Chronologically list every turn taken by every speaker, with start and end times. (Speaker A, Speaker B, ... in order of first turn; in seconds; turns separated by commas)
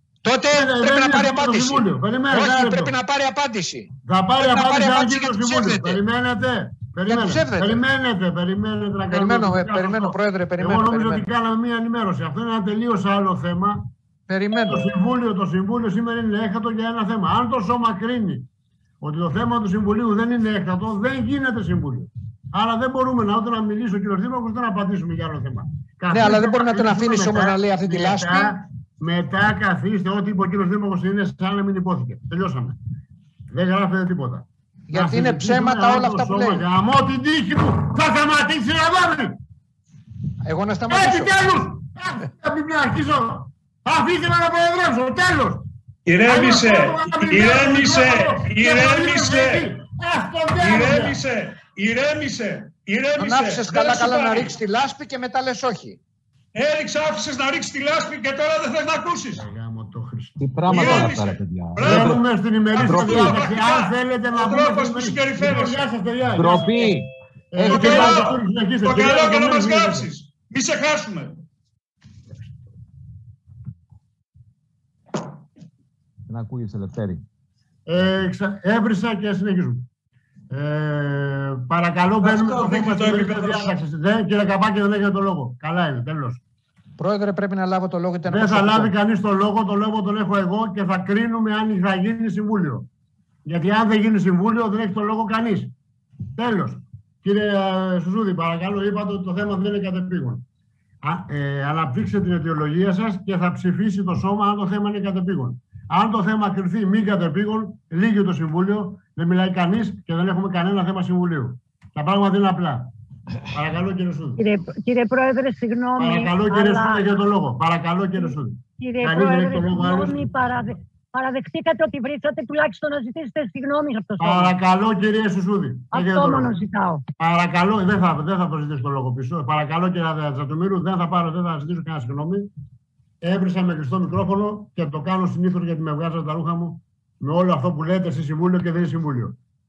Speaker A: 0.2-1.8, Speaker B: 0.5-3.0, Speaker A: 2.3-3.9, Speaker C: 2.9-3.6, Speaker B: 4.0-13.9, Speaker A: 4.4-5.9, Speaker A: 7.1-7.8, Speaker A: 9.1-11.0, Speaker A: 14.3-14.8, Speaker B: 14.7-18.4, Speaker B: 19.0-32.8, Speaker A: 26.1-28.5, Speaker B: 33.5-39.4, Speaker A: 34.9-36.6, Speaker C: 40.5-40.8, Speaker A: 40.5-41.3, Speaker B: 40.9-45.6, Speaker D: 46.0-49.7, Speaker B: 46.2-51.2, Speaker D: 50.6-54.5, Speaker A: 53.2-55.6, Speaker C: 54.5-56.0, Speaker D: 56.5-59.4, Speaker B: 59.3-61.2, Speaker E: 60.4-62.2, Speaker D: 60.7-62.2, Speaker B: 61.8-67.0, Speaker D: 62.7-65.9, Speaker E: 62.8-63.4, Speaker E: 66.3-68.2, Speaker B: 67.5-70.1, Speaker D: 67.7-71.4, Speaker E: 76.3-77.2, Speaker B: 77.9-79.8, Speaker B: 80.5-86.4, Speaker D: 82.2-83.7, Speaker C: 87.0-88.1, Speaker A: 87.3-88.9, Speaker B: 88.2-92.9, Speaker B: 93.4-95.7, Speaker B: 96.3-100.4, Speaker B: 101.0-112.9, Speaker B: 113.5-114.4, Speaker C: 114.4-116.9, Speaker B: 116.0-120.3, Speaker C: 118.8-120.6, Speaker C: 121.1-124.4, Speaker B: 124.2-126.6, Speaker C: 126.1-127.0, Speaker B: 127.2-132.5, Speaker B: 133.2-139.3